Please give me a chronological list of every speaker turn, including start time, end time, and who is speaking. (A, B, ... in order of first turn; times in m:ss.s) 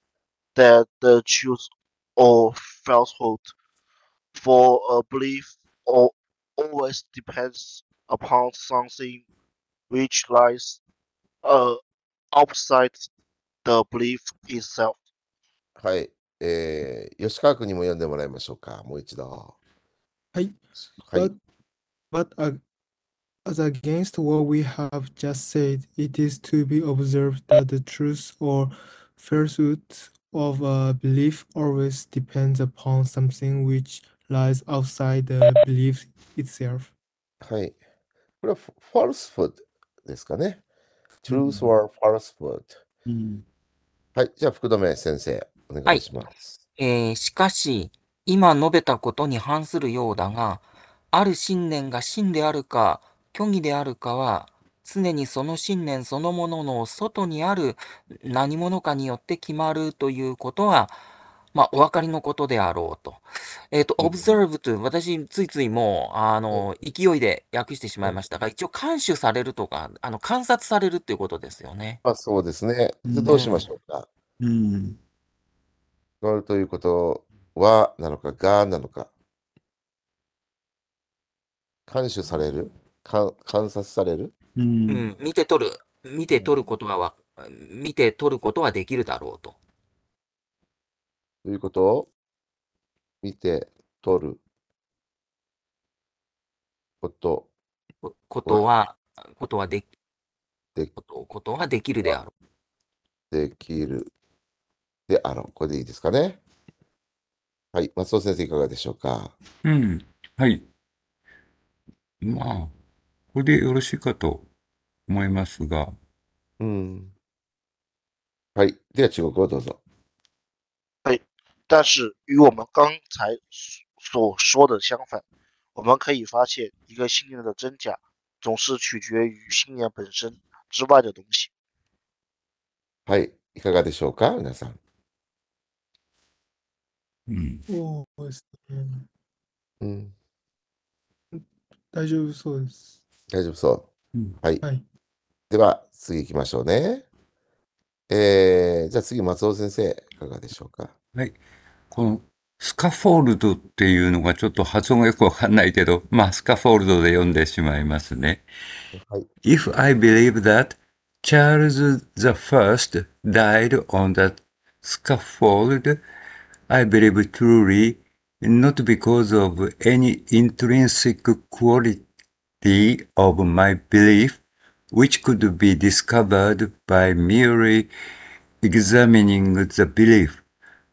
0:00.5-0:03.5 A
0:04.3-0:09.2 A
0:09.9-0:10.8 A
0:11.4-0:11.8 A
0:12.3-0:13.1 A
0:13.6-0:15.0 A
0:15.8-0:19.6 B
0:20.3-0:20.6 C
0:22.1-0:22.6 C
0:23.4-0:36.9 C
0:37.4-0:37.8 B
0:38.4-0:40.6 B
0:41.2-0:42.8 B
0:41.3-0:41.7 D
0:43.0-0:43.4 D
0:44.1-0:46.6 B
0:46.8-1:01.0 E
1:01.5-1:12.0 E
1:12.0-1:14.1 B
1:13.0-1:13.5 D
1:13.3-1:13.6 E
1:14.4-1:15.0 D
1:16.2-1:19.1 B
1:21.9-1:24.3 B
1:24.6-1:25.1 D
1:24.9-1:29.6 E
1:31.4-1:32.1 B
1:33.2-1:34.4 B
1:37.0-1:37.5 B
1:38.0-1:39.9 E
1:41.0-1:42.3 E
1:43.3-1:44.1 B
1:45.1-1:46.4 B
1:47.7-1:49.3 B
1:49.6-1:50.6 D
1:52.2-1:52.7 D
1:53.3-1:54.5 D
1:55.1-1:56.0 D
1:56.6-1:57.1 B
1:58.5-1:59.8 B
2:01.0-2:05.2 A
2:05.7-2:11.5 A
2:13.0-2:14.8 B
2:17.3-2:17.6 D
2:17.7-2:19.1 C
2:19.8-2:20.1 B
2:21.3-2:22.9 C
2:23.3-2:23.9 B
2:25.5-2:27.0 B
2:28.1-2:30.9 B
2:31.9-2:38.4 D
2:38.9-2:39.2 B
2:39.4-2:46.0 D
2:46.7-2:52.0 D
2:52.6-2:54.4 D
2:54.9-2:57.9 D
2:58.6-3:00.4 D